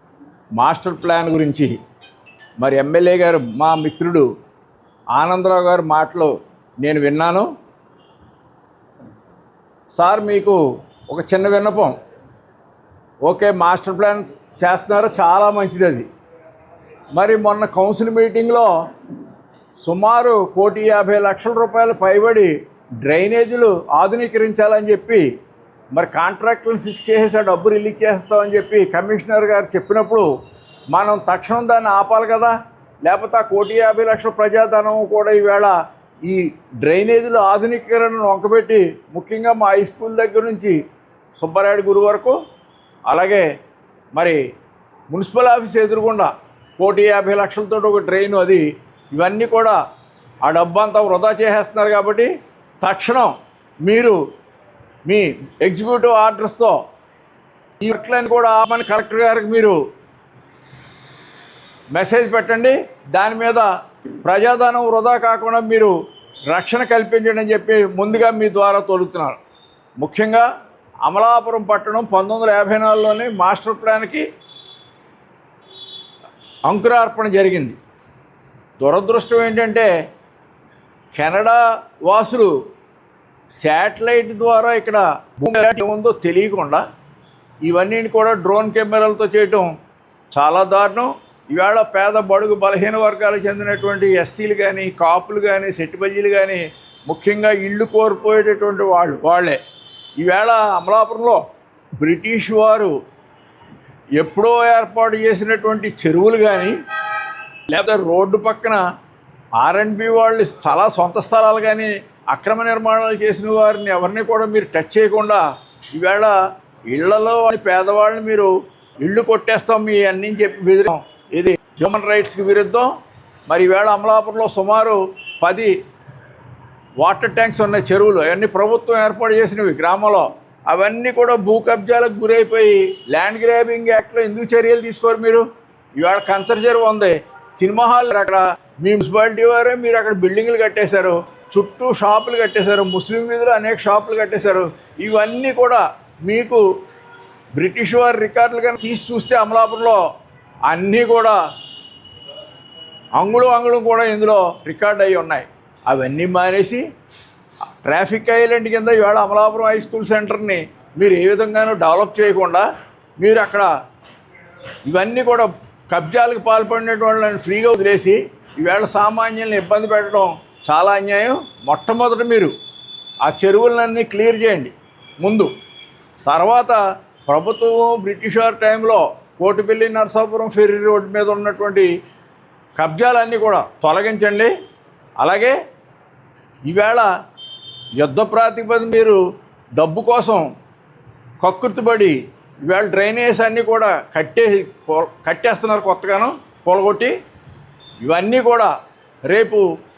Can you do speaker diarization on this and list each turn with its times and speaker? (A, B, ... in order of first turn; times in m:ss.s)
0:00.6-0:01.8 A
0:02.6-0:04.3 A
0:05.2-0:07.5 A
0:09.9-0:12.0 A
0:13.2-0:16.1 A
0:17.2-0:18.7 A
0:19.8-0:25.3 A
0:26.0-0:30.3 A
0:30.9-0:40.8 A
0:41.4-0:42.4 A
0:43.1-0:43.5 A
0:45.1-0:49.8 A
0:50.4-0:52.3 A
0:52.8-0:53.3 A
0:53.8-0:54.2 A
0:55.1-0:56.8 A
0:57.8-0:59.8 A
1:01.9-1:03.7 A
1:04.2-1:06.0 A
1:06.5-1:09.4 A
1:10.0-1:10.5 A
1:11.1-1:14.3 A
1:16.7-1:17.8 A
1:18.8-1:19.9 A
1:21.1-1:22.6 A
1:23.6-1:26.8 A
1:27.7-1:29.7 A
1:30.3-1:39.6 A
1:40.2-1:41.4 A
1:42.0-1:42.9 A
1:44.2-1:46.8 A
1:47.7-1:48.8 A
1:49.6-1:56.4 A
1:56.9-2:02.9 A
2:03.5-2:05.7 A
2:07.0-2:26.6 A
2:27.6-2:30.0 A
2:30.7-2:31.4 A
2:33.2-2:36.8 A
2:37.8-2:42.7 A
2:43.2-2:43.7 A
2:44.8-2:52.5 A
2:53.2-2:55.5 A
2:56.3-3:01.9 A
3:02.8-3:04.5 A
3:05.2-3:05.6 A
3:06.7-3:07.1 A
3:08.0-3:09.2 A
3:09.8-3:10.5 A
3:11.4-3:17.2 A
3:18.0-3:18.7 A
3:19.3-3:19.7 A